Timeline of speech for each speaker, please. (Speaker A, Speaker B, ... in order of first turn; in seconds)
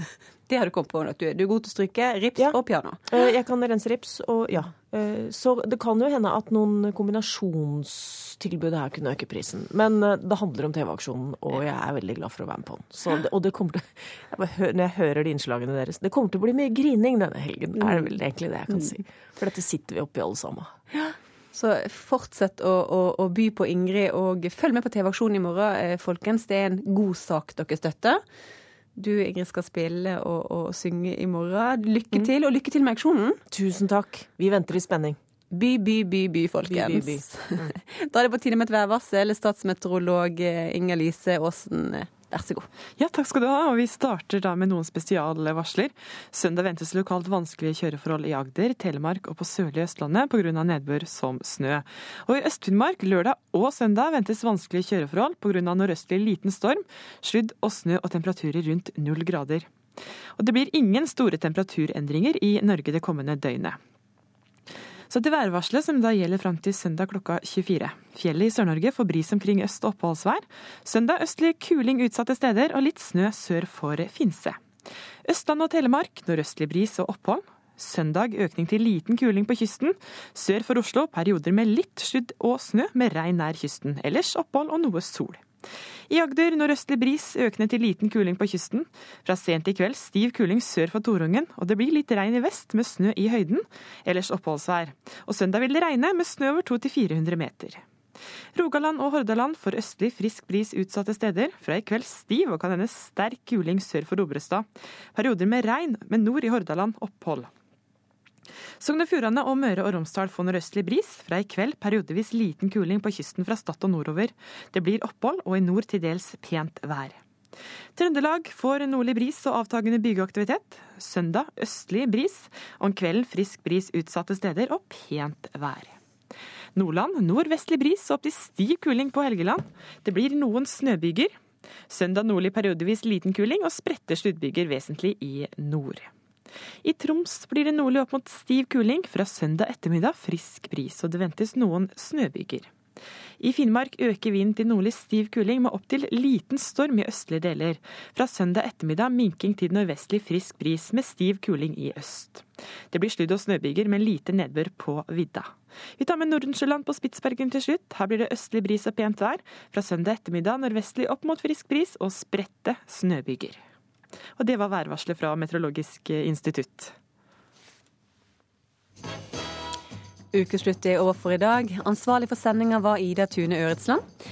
Speaker A: 0.5-3.0, 17.8-18.1, 21.5-28.2, 28.9-33.4, 35.5-42.7, 170.3-174.0
Speaker B: 2.4-21.1, 33.5-35.2, 36.7-37.7
Speaker C: 43.0-59.7, 60.4-63.8, 65.1-74.6, 75.3-85.4, 86.1-97.8, 98.5-107.5, 108.8-117.2, 118.0-126.0, 126.8-131.3, 131.9-136.1, 136.8-142.7, 143.4-163.6, 164.4-166.9